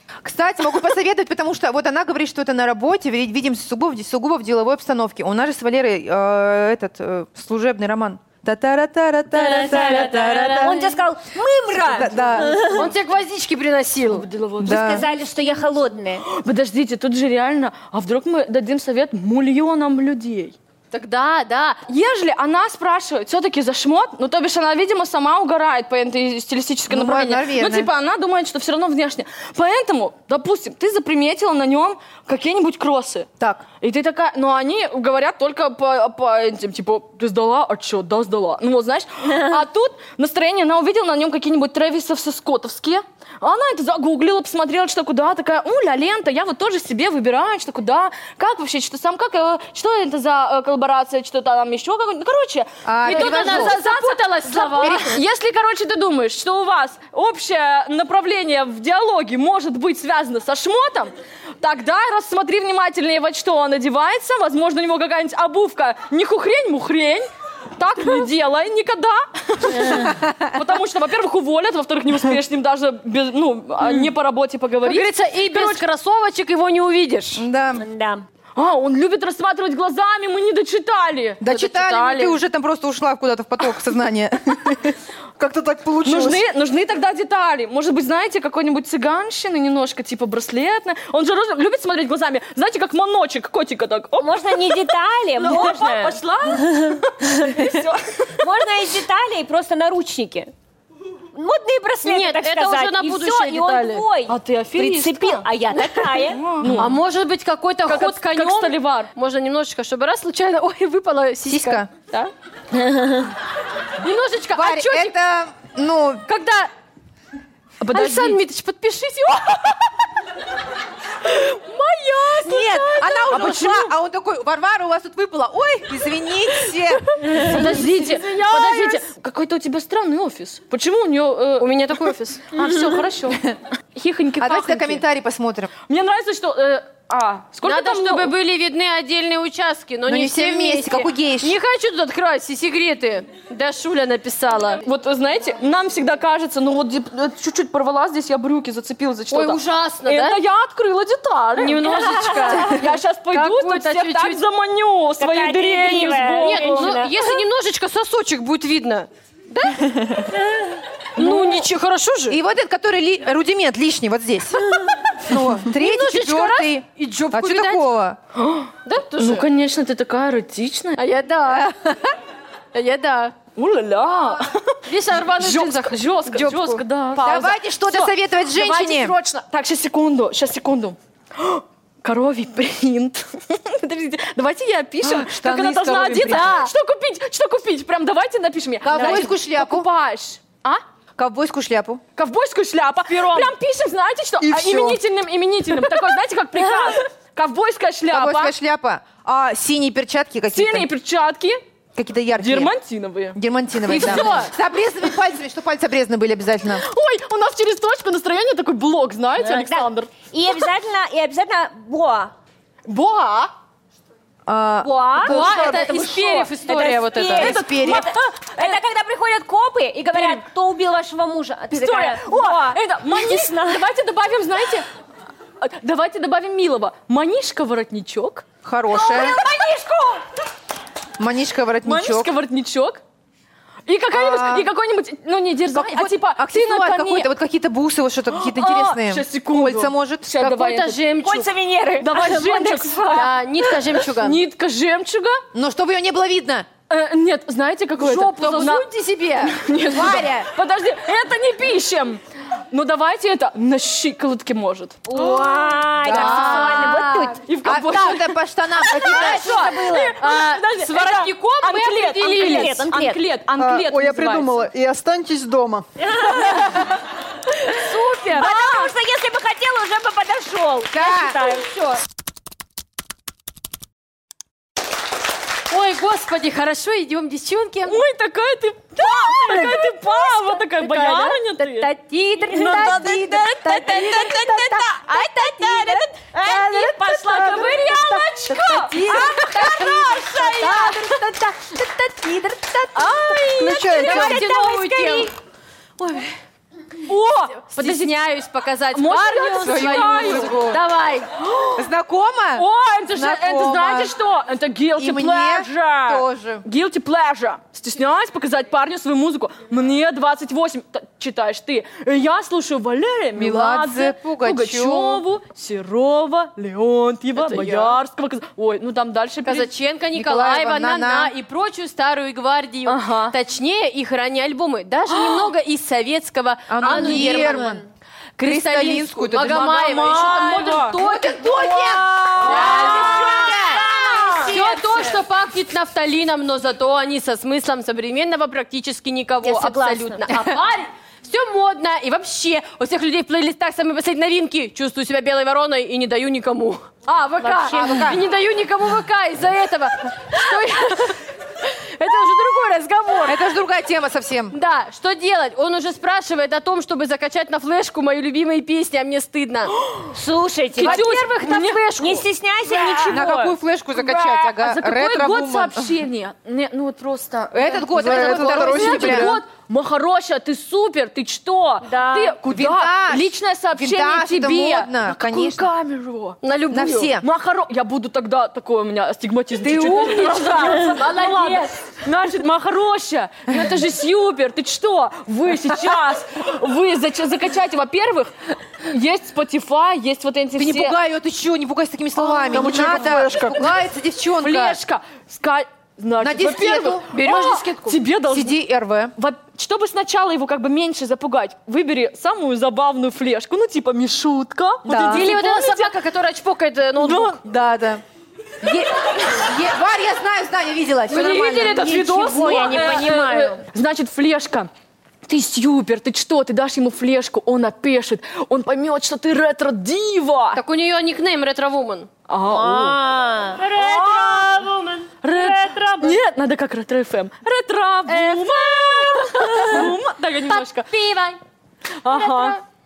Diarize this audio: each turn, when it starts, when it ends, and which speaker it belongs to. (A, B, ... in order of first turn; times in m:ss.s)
0:00.2-0:10.9 A
0:09.3-0:12.9 B
0:11.8-0:12.6 A
0:12.6-0:14.3 C
0:14.1-0:15.0 D
0:14.6-0:15.0 A
0:14.6-0:16.2 B
0:16.3-0:20.6 D
0:20.9-0:21.8 C
0:21.9-0:33.3 D
0:26.9-0:27.9 A
0:33.4-0:33.6 A
0:33.8-1:15.8 D
0:39.2-0:39.6 B
0:52.8-0:53.8 A
0:53.0-0:55.2 C
0:54.8-0:55.2 A
1:09.7-1:10.1 B
1:09.9-1:10.5 A
1:13.8-1:14.1 C
1:14.8-1:17.4 C
1:17.4-1:17.8 A
1:17.8-1:18.2 B
1:18.6-1:21.4 D
1:21.4-1:25.0 A
1:21.4-1:22.4 C
1:25.4-1:26.4 E
1:26.0-1:34.8 D
1:34.2-1:37.6 B
1:35.4-1:38.5 D
1:38.4-1:40.5 B
1:41.3-1:46.5 B
1:42.0-1:44.1 C
1:44.3-1:45.5 D
1:46.2-1:47.0 D
1:46.6-1:52.3 C
1:47.9-1:49.1 D
1:51.5-1:51.9 A
1:52.7-1:53.3 B
1:54.0-1:55.2 C
1:54.6-1:56.2 A
1:56.3-1:56.7 C
1:57.8-1:58.4 D
1:57.9-1:59.7 C
2:01.3-2:03.9 D
2:01.6-2:03.3 C
2:02.4-2:07.0 A
2:07.2-2:15.0 D
2:07.3-2:09.0 C
2:11.6-2:12.5 C
2:14.4-2:15.7 A
2:15.9-2:18.3 D
2:17.6-2:24.8 C
2:20.1-2:21.6 A
2:24.8-2:37.0 D
2:29.3-2:30.4 C
2:31.6-2:34.4 C
2:31.8-2:32.7 B
2:35.2-2:37.4 B
2:36.4-2:40.2 C
2:40.3-2:40.6 B
2:41.2-2:42.4 C
2:41.2-2:41.7 D
2:42.3-2:48.2 A
2:45.6-2:47.9 C
2:48.4-2:51.0 D
2:48.9-2:49.5 C
2:51.0-2:51.7 C
2:51.6-2:52.1 A
2:52.7-2:53.4 C
2:53.6-3:10.8 D
2:54.9-2:57.6 C
2:57.2-2:59.2 A
3:05.0-3:06.6 A
3:06.1-3:06.7 C
3:08.8-3:09.9 A
3:11.2-3:12.0 A
3:12.2-3:18.5 D
3:13.1-3:13.5 C
3:14.4-3:15.0 E
3:14.5-3:15.0 A
3:18.1-3:20.9 A
3:20.5-3:21.6 D
3:22.0-3:22.7 A
3:22.4-3:23.4 D
3:23.3-3:26.8 A
3:23.9-3:24.5 C
3:24.0-3:24.3 D
3:26.7-3:30.1 D
3:29.4-3:32.3 B
3:32.8-3:33.5 D
3:34.5-3:36.0 A
3:34.8-3:43.8 B
3:35.2-3:37.6 C
3:35.6-3:36.2 D
3:37.2-3:38.1 A
3:37.4-3:38.8 D
3:40.1-3:40.4 D
3:41.7-3:44.9 D
3:45.6-3:48.5 D
3:48.6-3:49.4 A
3:48.9-3:50.2 B
3:51.2-3:52.3 A
3:51.8-3:53.0 D
3:53.9-3:57.3 D
3:54.1-3:54.7 A
3:55.7-4:00.3 A
3:58.3-4:01.0 D
4:00.4-4:01.5 C
4:01.2-4:03.3 B
4:02.0-4:03.4 D
4:03.1-4:04.4 C
4:04.0-4:05.4 D
4:05.5-4:06.7 A
4:06.9-4:08.9 D
4:08.0-4:09.6 C
4:09.4-4:24.6 D
4:09.9-4:10.5 A
4:15.1-4:17.4 B
4:16.0-4:16.9 A
4:16.1-4:18.2 C
4:17.6-4:19.6 A
4:18.8-4:22.9 C
4:19.1-4:20.1 B
4:22.3-4:23.2 B
4:23.6-4:25.9 E
4:26.0-4:26.9 B
4:27.7-4:28.7 C
4:28.3-4:32.0 B
4:28.4-4:28.9 D
4:30.9-4:31.5 A
4:35.7-4:38.0 C
4:37.9-4:41.9 D
4:39.2-4:39.8 B
4:39.3-4:55.3 C
4:42.4-4:43.1 B
4:42.4-4:51.1 D
4:45.2-4:46.1 B
4:46.7-4:48.0 B
4:49.1-4:50.9 B
4:53.0-4:54.3 D
4:53.6-4:54.5 E
4:53.9-4:55.3 B
4:56.0-4:56.3 C
4:57.1-4:58.3 D
4:57.6-5:01.3 C
4:58.9-5:00.6 D
4:59.6-5:00.8 A
5:01.4-5:01.9 D
5:01.8-5:04.1 A
5:02.6-5:19.7 D
5:05.0-5:06.6 A
5:13.4-5:15.2 A
5:17.4-5:18.0 C
5:19.4-5:27.8 C
5:20.1-5:21.3 A
5:22.9-5:23.4 D
5:25.1-5:25.5 D
5:26.7-5:27.8 A
5:26.8-5:27.8 B
5:28.4-5:33.8 C
5:28.4-5:30.3 A
5:29.7-5:30.9 D
5:30.1-5:30.9 B
5:31.0-5:34.8 A
5:32.4-5:35.0 B
5:32.4-5:33.0 D
5:34.4-5:53.5 C
5:39.4-5:40.3 B
5:47.4-5:48.2 B
5:47.7-5:48.2 A
5:53.3-5:54.6 A
5:54.5-5:59.8 C
5:59.8-6:00.1 D
6:00.1-6:01.1 B
6:00.8-6:01.8 D
6:00.8-6:02.3 C
6:02.0-6:03.6 B
6:02.7-6:03.3 D
6:03.1-6:05.9 A
6:03.9-6:16.4 D
6:07.5-6:09.4 A
6:08.0-6:09.3 C
6:08.0-6:09.3 E
6:11.8-6:12.4 B
6:12.5-6:15.7 A
6:16.4-6:17.1 C
6:16.7-6:17.2 A
6:17.2-6:28.3 D
6:19.6-6:22.0 C
6:28.8-6:31.0 D
6:30.6-6:34.8 A
6:32.2-6:33.7 E
6:32.8-6:33.1 D
6:34.4-6:38.6 D
6:36.2-6:37.0 A
6:37.1-6:38.0 C
6:38.3-6:39.1 A
6:39.2-6:45.9 D
6:44.8-6:45.3 A
6:44.9-6:47.4 C
6:47.0-6:47.4 D
6:47.4-6:48.0 A
6:48.6-6:52.4 A
6:51.1-6:52.9 C
6:51.1-6:54.7 D
6:52.0-6:53.6 B
6:55.3-7:00.6 D
7:00.5-7:02.1 C
7:02.3-7:03.0 D
7:02.5-7:06.2 B
7:03.6-7:05.0 C
7:03.7-7:04.6 D
7:05.2-7:10.9 D
7:08.1-7:09.9 C
7:10.4-7:11.4 C
7:12.0-7:12.6 D
7:12.1-7:12.6 C